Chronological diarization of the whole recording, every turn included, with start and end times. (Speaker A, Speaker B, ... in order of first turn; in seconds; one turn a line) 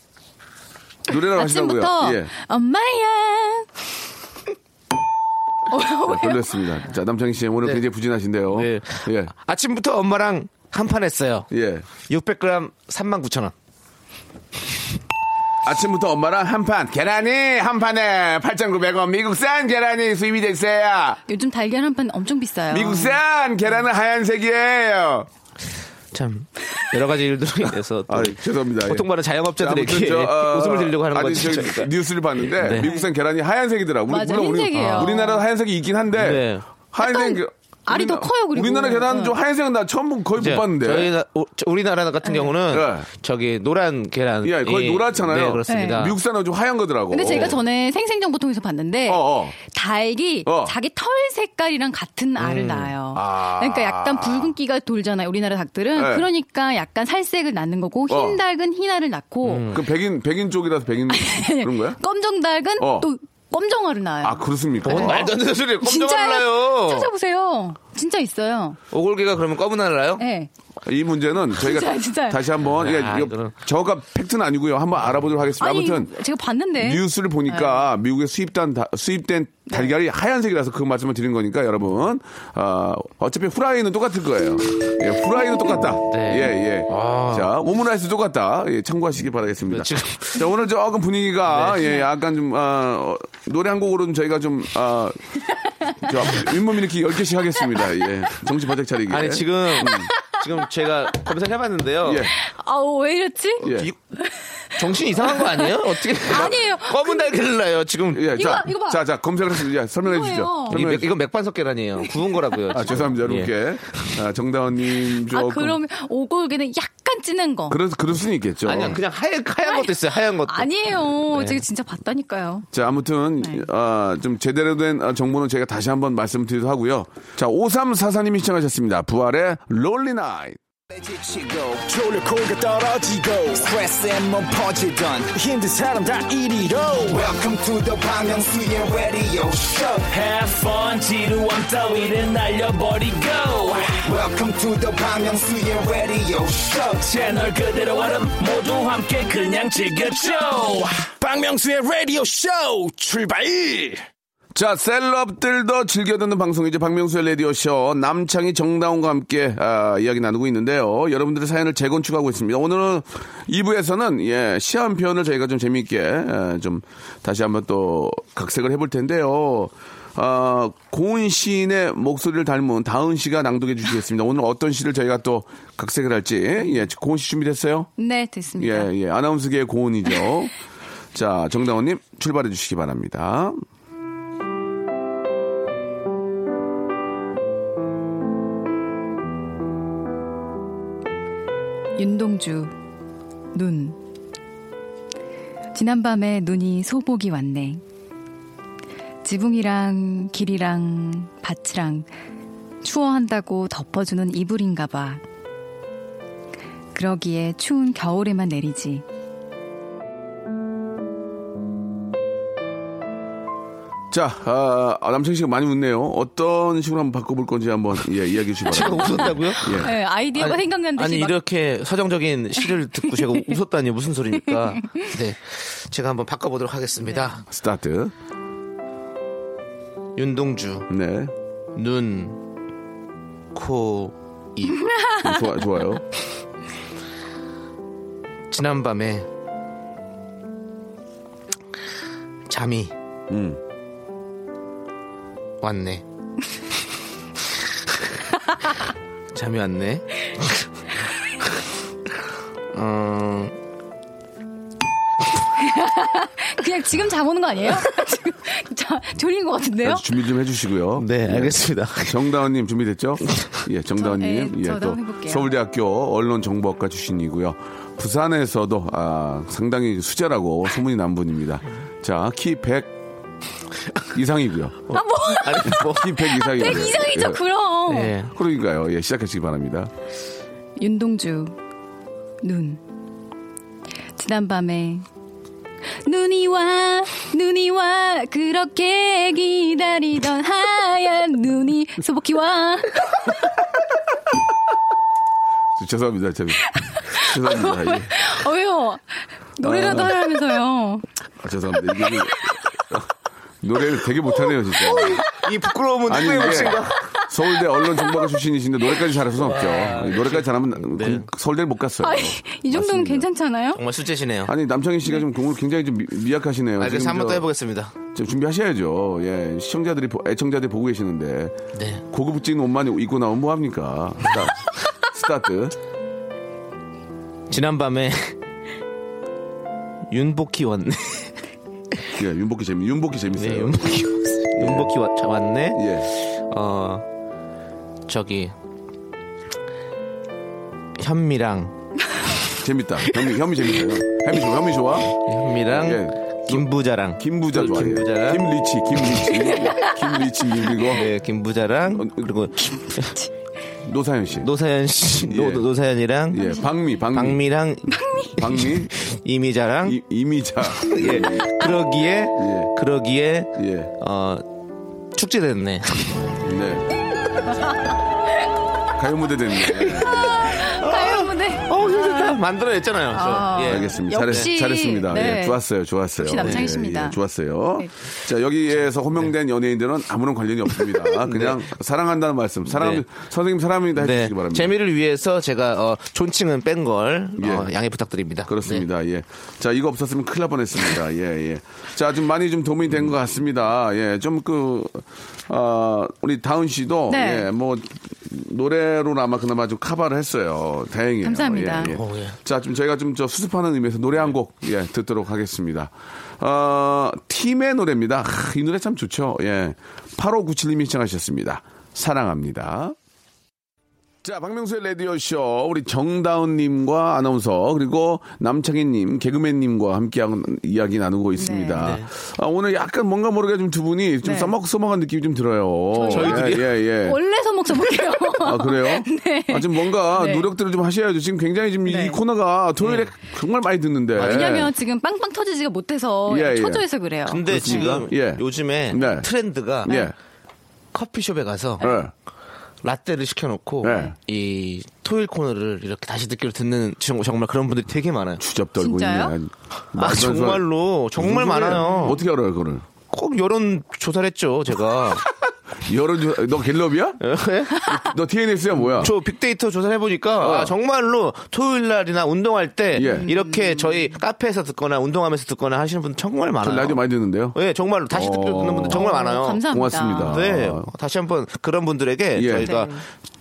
Speaker A: 1.1-2.3
Speaker B: 1.3-3.7
Speaker B: 5.7-6.6
Speaker A: 6.0-9.3
Speaker C: 8.5-11.5
Speaker A: 11.5-11.8
Speaker C: 12.1-13.5
Speaker A: 15.6-21.2
Speaker B: 21.3-23.2
Speaker A: 22.7-25.3
Speaker C: 26.1-32.9
Speaker A: 28.1-41.1
Speaker B: 32.8-33.0
Speaker B: 34.1-35.4
Speaker C: 34.7-35.1
Speaker C: 36.1-36.6
Speaker B: 37.0-39.4
Speaker C: 40.4-46.1
Speaker B: 42.2-42.5
Speaker A: 42.7-43.1
Speaker A: 44.4-47.6
Speaker B: 45.7-46.1
Speaker B: 47.1-59.7
Speaker A: 49.1-49.5
Speaker A: 50.5-50.7
Speaker C: 52.4-54.3
Speaker A: 55.9-56.3
Speaker A: 58.1-58.4
Speaker C: 59.4-59.8
Speaker A: 59.7-62.0
Speaker B: 61.1-68.8
Speaker A: 62.8-63.1
Speaker A: 64.2-65.3
Speaker C: 64.8-67.1
Speaker C: 68.9-70.2
Speaker B: 70.2-70.5
Speaker A: 70.8-76.1
Speaker B: 71.5-72.4
Speaker C: 72.6-73.5
Speaker B: 75.6-77.8
Speaker A: 76.8-95.2
Speaker C: 86.0-87.5
Speaker C: 89.7-90.4
Speaker C: 91.5-92.0
Speaker A: 96.0-100.1
Speaker C: 99.1-102.3
Speaker A: 102.0-102.3
Speaker B: 102.3-103.7
Speaker A: 103.6-103.9
Speaker C: 103.6-104.0
Speaker B: 104.2-107.3
Speaker C: 104.7-108.3
Speaker A: 108.1-111.1
Speaker B: 108.3-109.0
Speaker B: 110.0-110.8
Speaker C: 110.7-114.1
Speaker A: 112.7-115.8
Speaker B: 115.3-117.8
Speaker A: 117.7-119.0
Speaker C: 118.6-120.7
Speaker B: 119.6-122.7
Speaker C: 121.3-121.6
Speaker A: 122.7-130.6
Speaker D: 130.9-140.2
Speaker E: 140.1-143.9
Speaker D: 144.0-147.4
Speaker E: 147.0-154.0
Speaker D: 152.0-153.3
Speaker A: 154.5-177.9
Speaker B: 178.0-178.9
Speaker A: 178.6-180.5
Speaker A: 181.1-183.6
Speaker B: 192.0-192.7
Speaker B: 193.5-194.0
Speaker B: 195.7-197.8
Speaker B: 199.2-202.1
Speaker B: 202.8-205.2
Speaker B: 206.9-209.0
Speaker A: 214.1-219.9
Speaker C: 218.7-227.4
Speaker B: 219.6-221.4
Speaker A: 227.5-228.1
Speaker C: 230.2-230.9
Speaker A: 230.9-231.3
Speaker C: 231.7-232.4
Speaker C: 233.5-234.9
Speaker B: 234.9-235.2
Speaker A: 235.2-236.0
Speaker C: 238.5-239.3
Speaker C: 242.5-242.9
Speaker A: 243.3-243.6
Speaker C: 245.6-246.0
Speaker C: 249.3-250.7
Speaker C: 252.7-253.6
Speaker B: 255.6-260.1
Speaker A: 259.8-272.9
Speaker C: 260.9-262.3
Speaker B: 264.0-265.5
Speaker A: 274.1-274.8
Speaker C: 274.9-276.9
Speaker B: 274.9-278.1
Speaker A: 275.7-277.4
Speaker C: 277.9-278.3
Speaker A: 278.3-279.9
Speaker B: 280.8-281.6
Speaker B: 282.4-282.8
Speaker B: 284.1-285.1
Speaker B: 286.0-293.4
Speaker A: 295.8-298.2
Speaker B: 296.7-299.0
Speaker B: 299.6-301.0
Speaker A: 299.6-300.1
Speaker A: 301.4-303.1
Speaker B: 302.1-302.5
Speaker A: 303.6-305.2
Speaker C: 304.8-307.1
Speaker A: 306.1-313.3
Speaker C: 309.4-311.3
Speaker B: 312.0-313.8
Speaker C: 313.7-314.5
Speaker A: 314.4-317.5
Speaker C: 316.8-317.9
Speaker A: 318.1-325.7
Speaker C: 321.7-322.0
Speaker C: 327.5-328.3
Speaker C: 330.1-331.4
Speaker A: 332.1-333.8
Speaker C: 333.4-337.1
Speaker A: 334.5-334.9
Speaker A: 335.7-336.1
Speaker C: 338.1-338.5
Speaker C: 341.0-341.7
Speaker A: 342.6-345.1
Speaker C: 345.1-348.5
Speaker A: 345.6-351.1
Speaker B: 349.6-349.9
Speaker C: 350.8-353.2
Speaker A: 351.9-352.2
Speaker A: 353.8-354.5
Speaker C: 354.4-356.6
Speaker A: 355.2-355.7
Speaker A: 356.3-357.5
Speaker C: 357.1-360.0
Speaker B: 358.0-358.3
Speaker A: 358.2-358.9
Speaker A: 359.8-361.7
Speaker C: 360.7-364.4
Speaker A: 362.4-362.7
Speaker A: 363.6-363.9
Speaker C: 365.1-366.3
Speaker A: 366.4-366.9
Speaker A: 368.9-370.4
Speaker C: 369.6-374.5
Speaker B: 370.0-372.4
Speaker B: 373.1-375.6
Speaker A: 373.6-384.7
Speaker B: 376.2-377.2
Speaker C: 376.4-376.6
Speaker C: 381.1-381.6
Speaker C: 382.7-383.0
Speaker C: 383.9-388.9
Speaker A: 387.4-387.7
Speaker A: 388.5-412.9
Speaker B: 397.1-397.5
Speaker B: 401.2-402.0
Speaker C: 401.9-402.4
Speaker A: 414.2-427.2
Speaker B: 421.4-421.9
Speaker C: 421.8-422.1
Speaker B: 424.2-424.5
Speaker B: 425.9-430.5
Speaker C: 426.1-426.7
Speaker A: 428.3-434.7
Speaker B: 431.8-432.2
Speaker C: 432.8-433.1
Speaker C: 434.1-434.6
Speaker B: 434.2-438.0
Speaker A: 436.3-436.8
Speaker C: 437.2-439.9
Speaker A: 437.4-439.3
Speaker A: 439.8-440.1
Speaker B: 439.9-440.1
Speaker C: 440.9-441.9
Speaker A: 441.8-442.1
Speaker C: 442.8-448.4
Speaker A: 443.8-444.1
Speaker A: 448.4-452.8
Speaker B: 448.8-449.3
Speaker C: 449.9-452.2
Speaker B: 451.8-452.1
Speaker C: 453.1-455.2
Speaker A: 455.8-457.2
Speaker C: 457.2-457.9
Speaker A: 457.8-459.1
Speaker C: 458.9-467.0
Speaker A: 460.4-460.7
Speaker A: 462.9-463.3
Speaker B: 463.0-464.0
Speaker A: 466.6-467.6
Speaker C: 467.5-469.6
Speaker A: 468.1-469.1
Speaker B: 468.9-470.4
Speaker A: 469.6-470.9
Speaker C: 470.1-473.0
Speaker A: 472.4-472.7
Speaker B: 472.6-473.0